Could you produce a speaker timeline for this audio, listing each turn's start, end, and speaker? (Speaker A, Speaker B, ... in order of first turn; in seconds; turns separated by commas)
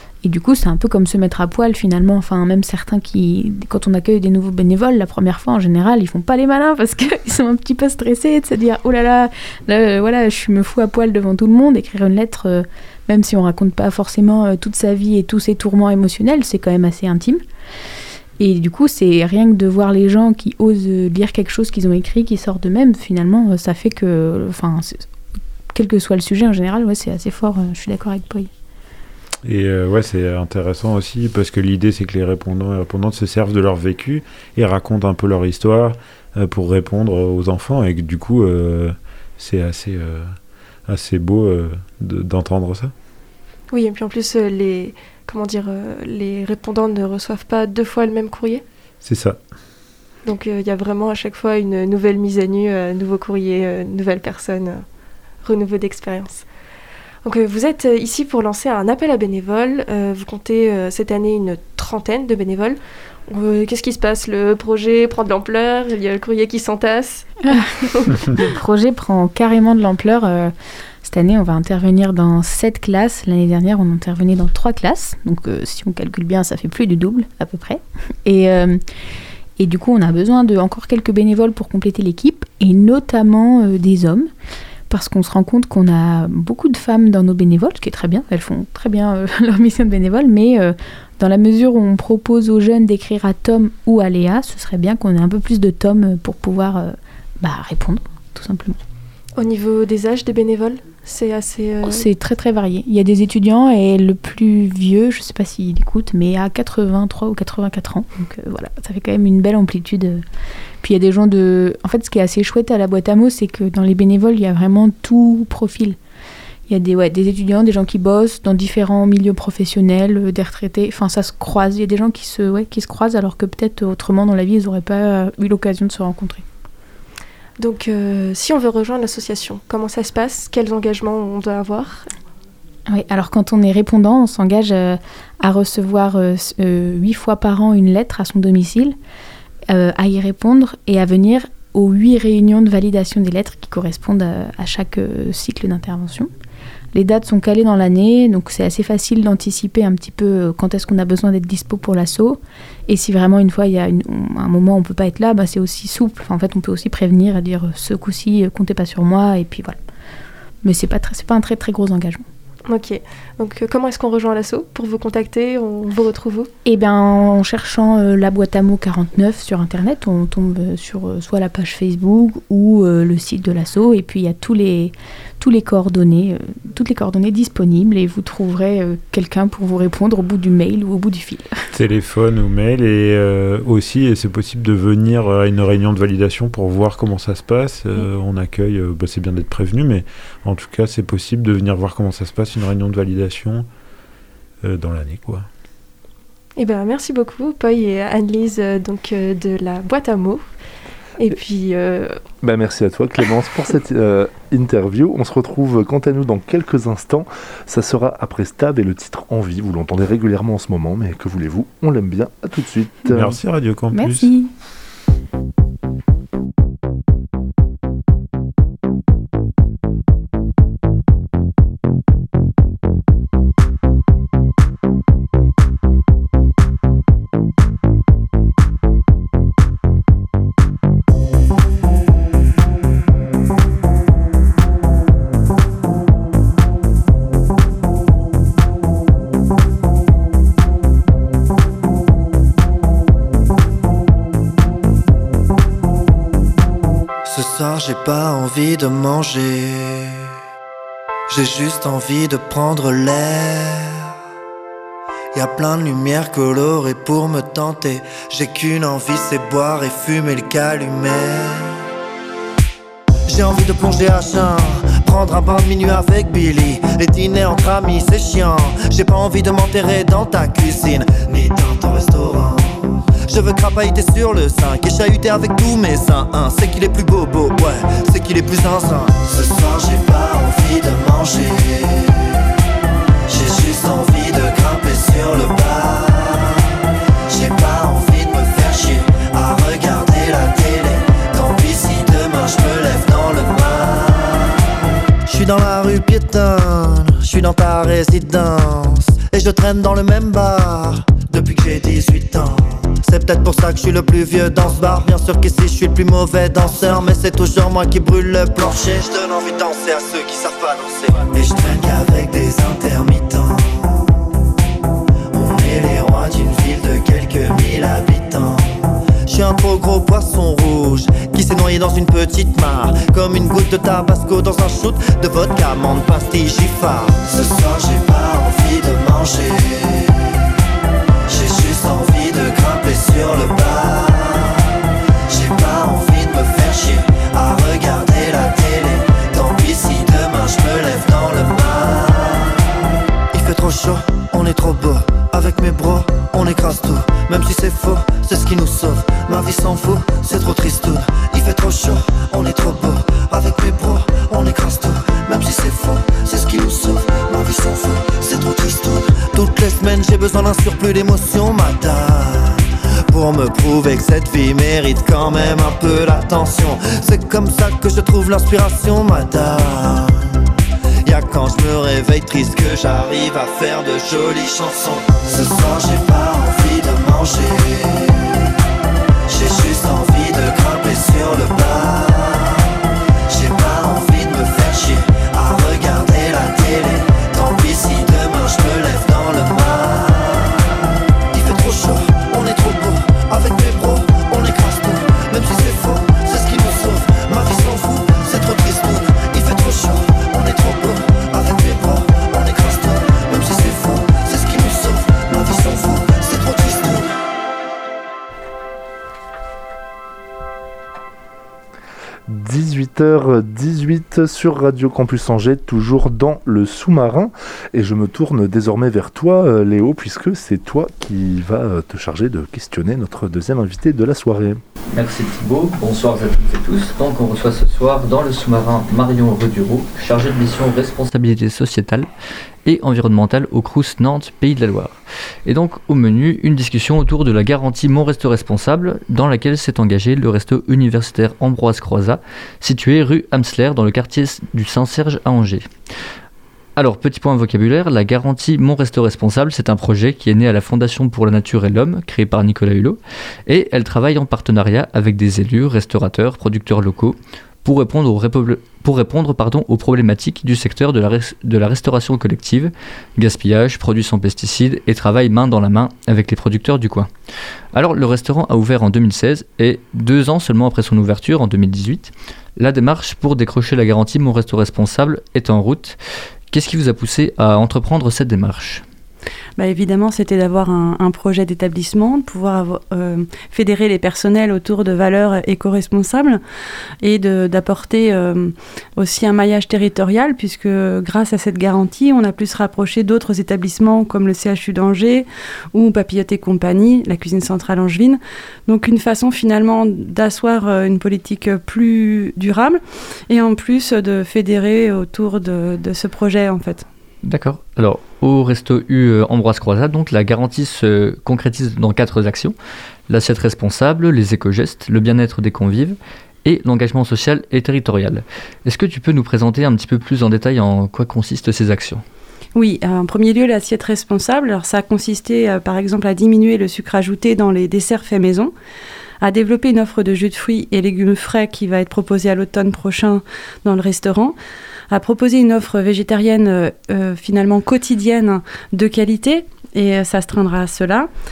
Speaker A: 0.2-17.4, Speaker A: 18.4-25.0, Speaker A: 25.7-28.5, Speaker B: 29.4-40.3, Speaker B: 40.9-42.9, Speaker C: 43.7-48.6, Speaker B: 49.0-49.4, Speaker C: 50.2-54.8, Speaker C: 55.4-56.4, Speaker C: 57.2-68.3, Speaker A: 67.5-67.8, Speaker A: 68.3-70.5, Speaker A: 71.0-78.8, Speaker A: 79.6-84.3, Speaker A: 84.9-98.8, Speaker C: 99.4-102.0, Speaker A: 101.8-110.2, Speaker A: 110.8-116.0, Speaker A: 116.7-126.4, Speaker C: 127.6-132.1, Speaker A: 132.9-138.9, Speaker A: 139.7-146.3, Speaker A: 146.9-159.8, Speaker A: 160.6-162.2, Speaker C: 162.7-166.5, Speaker A: 166.6-181.5, Speaker B: 181.7-193.7, Speaker B: 194.6-195.4, Speaker C: 196.6-200.4, Speaker C: 201.2-202.2, Speaker D: 202.4-213.4, Speaker B: 213.1-214.3, Speaker A: 213.9-214.5, Speaker E: 247.2-250.3, Speaker E: 251.3-254.1, Speaker E: 255.3-261.8, Speaker E: 263.3-282.2, Speaker E: 283.3-286.7, Speaker E: 287.3-294.6, Speaker E: 295.3-314.0, Speaker E: 315.3-330.2, Speaker E: 331.3-334.6, Speaker E: 335.3-342.6, Speaker E: 343.3-370.3, Speaker E: 371.0-378.2, Speaker E: 379.3-382.7, Speaker E: 383.3-390.6, Speaker E: 391.3-407.1, Speaker D: 412.3-424.6, Speaker F: 424.9-432.1, Speaker F: 432.6-445.7, Speaker F: 446.8-467.1, Speaker F: 467.7-476.0, Speaker F: 476.5-478.8, Speaker G: 479.6-486.4, Speaker G: 487.0-506.9, Speaker F: 507.2-512.5, Speaker F: 513.1-522.0, Speaker G: 522.5-528.5, Speaker G: 529.2-534.3, Speaker G: 534.9-541.1